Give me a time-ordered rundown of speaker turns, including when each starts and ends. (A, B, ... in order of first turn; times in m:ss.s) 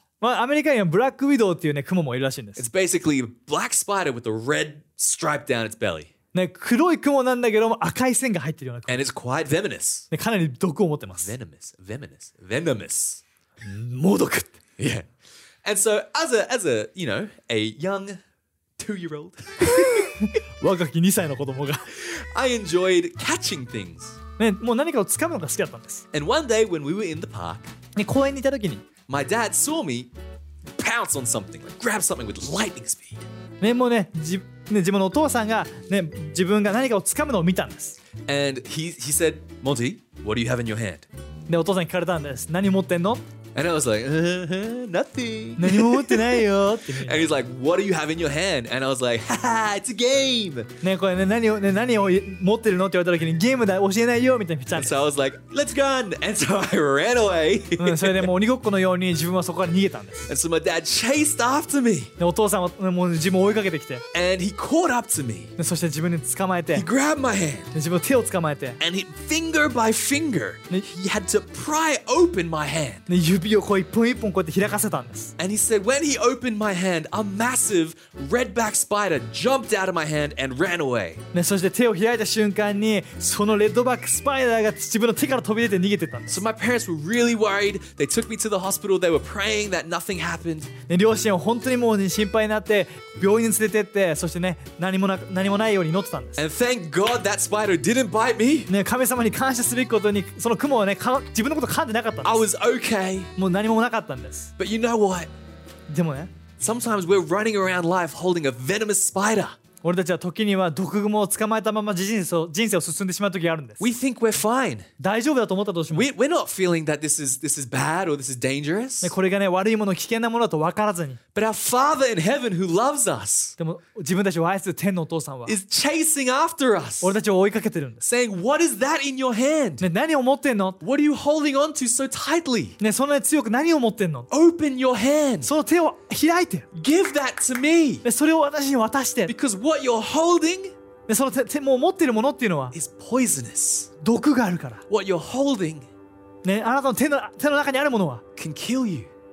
0:00.2-0:02.6 A
0:02.6-0:06.1 B
0:06.3-0:09.0 A
0:08.9-0:10.1 B
0:10.1-0:11.3 A
0:11.2-0:13.2 B
0:13.6-0:14.5 A
0:14.8-0:15.1 B
0:15.6-0:18.2 B
0:18.8-0:20.1 B
0:19.6-0:21.8 A
0:22.0-0:24.2 B
0:24.4-0:26.0 A
0:26.1-0:27.7 B
0:28.0-0:28.8 A
0:29.1-0:30.1 B
0:30.8-0:33.2 B
0:33.6-0:38.0 A
0:38.2-0:41.0 B
0:41.5-0:43.2 A
0:43.5-0:50.7 B
0:45.6-0:47.3 A
0:50.8-0:54.9 A
0:54.7-0:58.3 B
0:57.8-1:00.3 A
1:00.2-1:02.1 B
1:02.2-1:04.0 A
1:04.1-1:05.5 B
1:05.6-1:06.9 A
1:06.7-1:07.7 B
1:07.7-1:08.8 A
1:08.8-1:13.1 B
1:13.1-1:15.3 A
1:15.4-1:21.2 B
1:21.3-1:26.4 A
1:26.3-1:30.7 B
1:30.9-1:36.4 A
1:36.4-1:38.7 B
1:38.7-1:42.4 A
1:42.2-1:43.3 B
1:43.4-1:44.5 A
1:44.6-1:45.3 B
1:45.9-1:46.3 A
1:46.6-1:49.6 B
1:49.8-1:53.9 A
1:53.8-1:54.9 B
1:55.0-1:56.1 A
1:55.9-1:59.1 B
1:59.0-2:01.2 A
2:01.3-2:03.6 B
2:03.6-2:05.6 A
2:05.4-2:07.1 B
2:07.0-2:08.0 A
2:08.0-2:09.8 B
2:09.8-2:10.8 A
2:10.8-2:12.8 B
2:12.8-2:14.3 A
2:14.3-2:15.5 B
2:15.4-2:16.7 A
2:16.7-2:18.0 B
2:18.0-2:19.3 A
2:19.3-2:20.7 B
2:21.1-2:22.7 A
2:22.7-2:23.9 B
2:24.0-2:24.8 A
2:24.9-2:25.8 B
2:26.4-2:28.2 A
2:28.4-2:29.1 B